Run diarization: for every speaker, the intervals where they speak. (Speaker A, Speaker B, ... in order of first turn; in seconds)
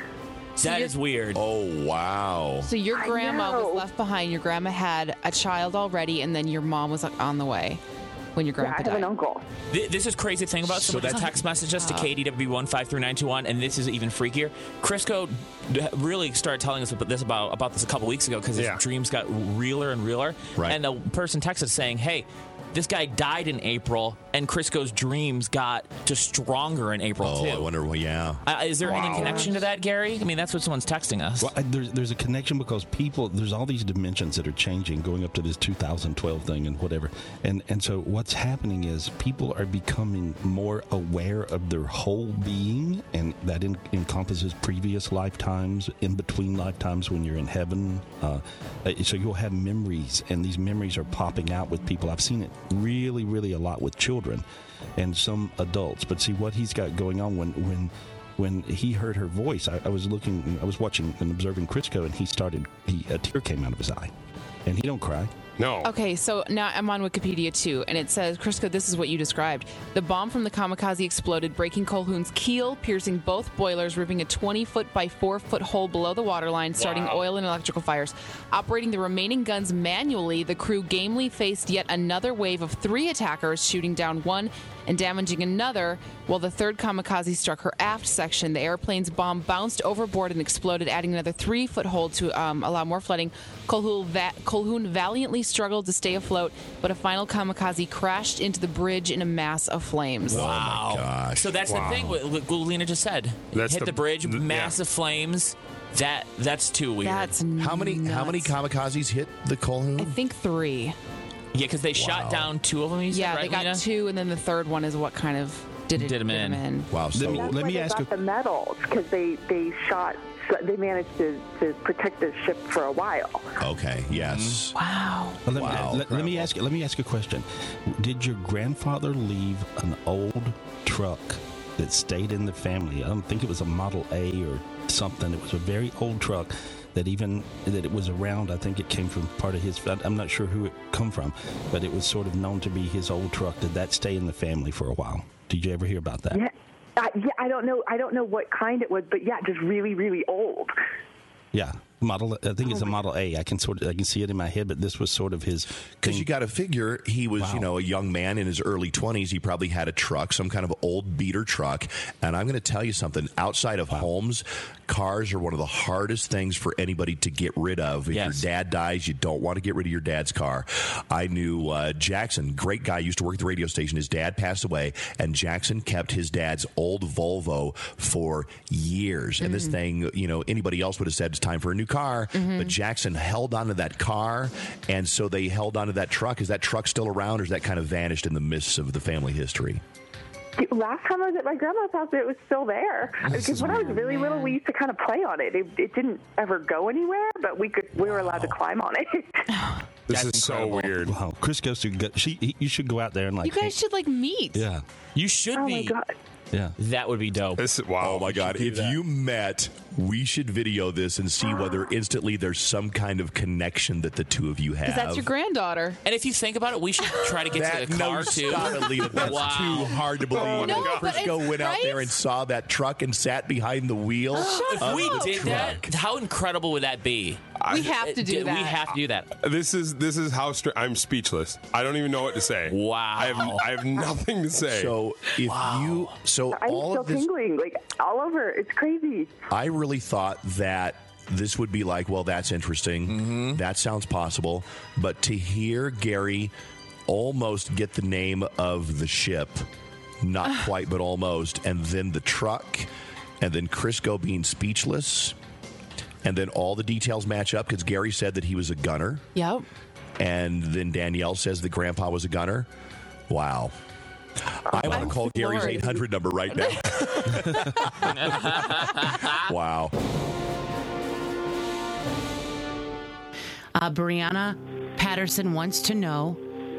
Speaker A: 0.6-1.4, 9.7-27.7, 28.4-31.5, 100.3-107.3, 111.5-113.8, 115.9-116.6, 168.1-168.5, 193.2-194.0, 200.1-201.0, 205.1-205.9, 206.8-207.6, 208.5-208.8, 216.0-220.0, 224.4-229.3, 232.7-233.7, 235.5-236.1, 243.1-243.6, 268.2-269.2
Speaker B: 0.6-0.9, 2.6-7.8, 8.3-9.1, 11.0-11.2, 11.8-12.1, 65.8-100.4, 107.0-108.5, 110.0-111.0, 113.1-116.9, 124.7-125.4, 179.4-179.8, 182.3-182.8, 193.6-194.6, 199.5-199.8, 203.4-204.7, 214.8-216.0, 220.4-222.2, 224.3-225.4, 227.7-228.8, 259.3-259.6, 264.9-266.0, 266.5-267.2
Speaker C: 1.3-2.7, 10.7-11.4, 27.2-28.4, 100.3-101.6, 107.6-110.2, 111.9-112.5, 116.9-117.5, 123.6-124.8, 125.5-126.5, 156.0-189.8, 208.0-215.3, 217.5-225.9, 234.7-237.3, 239.5-246.5, 247.1-249.7, 250.2-252.9, 253.4-255.3, 256.2-259.2, 260.2-262.7, 263.3-263.7, 264.6-269.9
Speaker D: 2.9-3.8, 8.6-9.4, 117.3-123.6, 146.3-150.7, 152.7-152.9, 190.6-199.5, 205.5-206.1, 236.5-239.3
Speaker E: 18.5-18.8, 28.9-29.4, 65.6-65.9, 76.8-77.1, 101.7-102.2, 103.5-104.8, 200.1-201.2, 207.6-208.9, 219.3-221.3, 227.6-227.9, 229.3-234.9
Speaker F: 31.4-54.4, 55.0-64.1, 64.7-65.3, 117.1-118.1, 124.2-124.5, 125.5-146.4, 151.5-156.3, 157.4-157.7, 198.0-198.5, 201.0-203.8, 204.5-204.8
Speaker G: 273.7-276.4